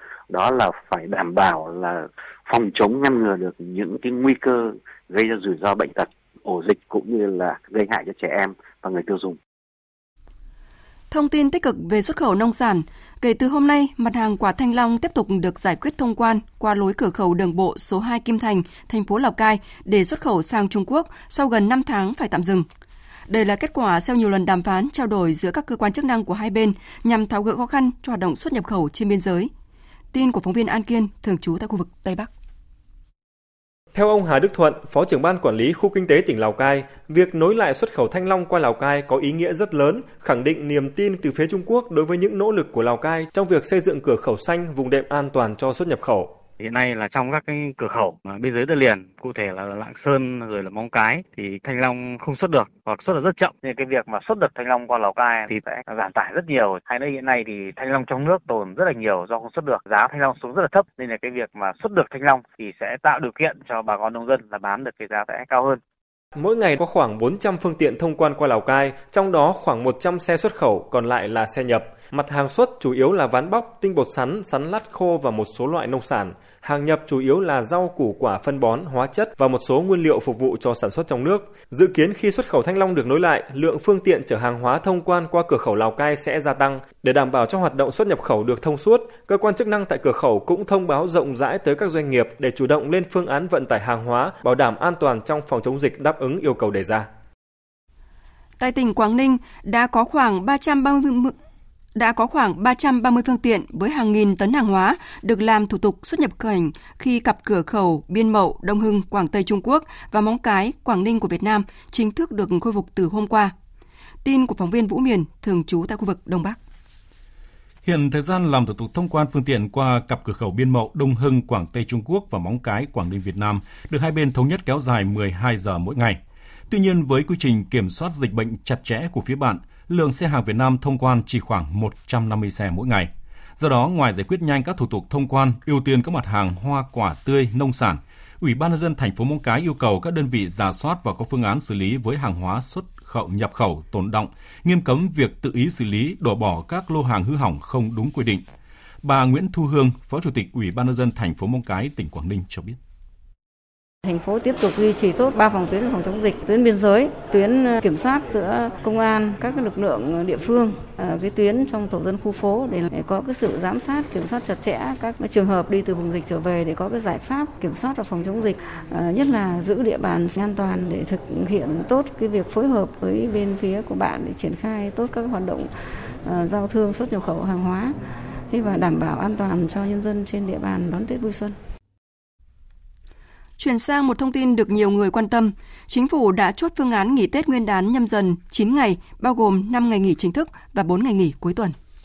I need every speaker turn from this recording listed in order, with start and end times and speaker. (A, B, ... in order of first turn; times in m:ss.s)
0:00.3-0:09.4 A
0:11.1-0:22.7 B
0:23.3-0:29.5 B
0:30.1-0:32.3 B
0:33.9-0:46.3 C
0:46.6-1:05.8 D
1:06.4-1:37.1 C
1:38.6-1:41.4 B
1:42.0-1:53.5 B
1:54.2-1:56.6 B
1:57.8-2:28.4 E
2:29.0-2:32.8 E
2:34.0-2:55.7 F
2:56.2-2:58.0 F
2:58.5-3:01.6 F
3:03.6-3:11.8 B